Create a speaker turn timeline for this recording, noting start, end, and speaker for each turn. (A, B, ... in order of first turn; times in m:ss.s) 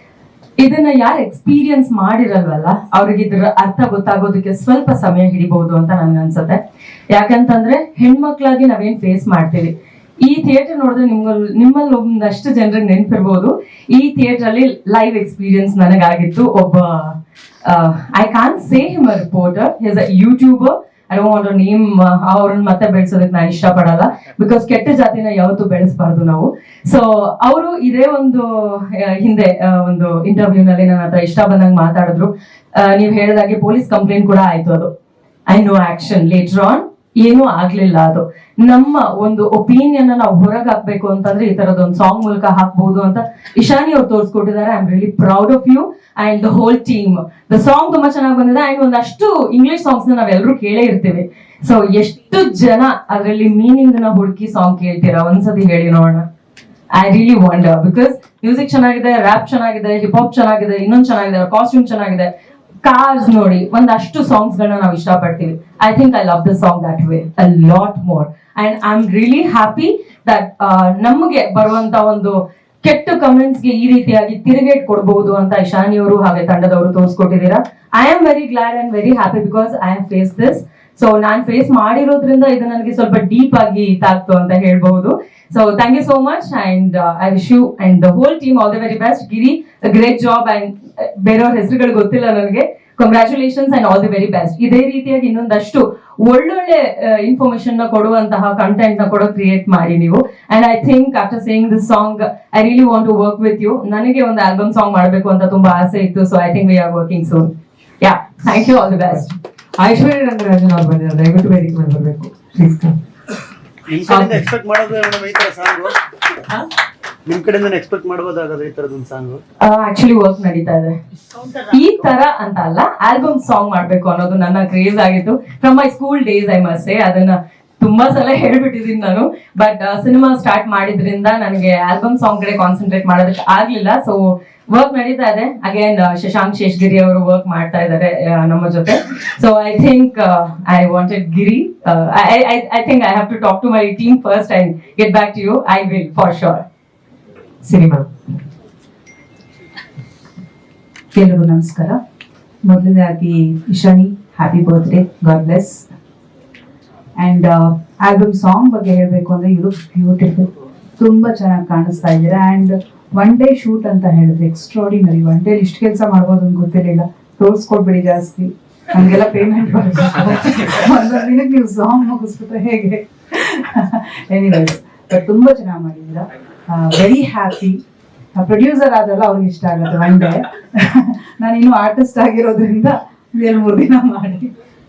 0:00.6-0:34.9 A
0:35.5-0:56.2 A
0:56.9-1:02.3 A
1:02.8-1:49.3 A
1:49.8-1:53.0 B
1:53.9-1:55.9 C
1:57.3-1:59.4 C
1:59.6-2:00.9 A
2:01.3-2:01.8 C
2:01.7-2:26.6 A
2:27.6-2:28.1 B
2:31.1-2:32.0 D
2:32.6-2:35.9 D
2:37.2-2:57.8 D
2:58.3-3:04.5 D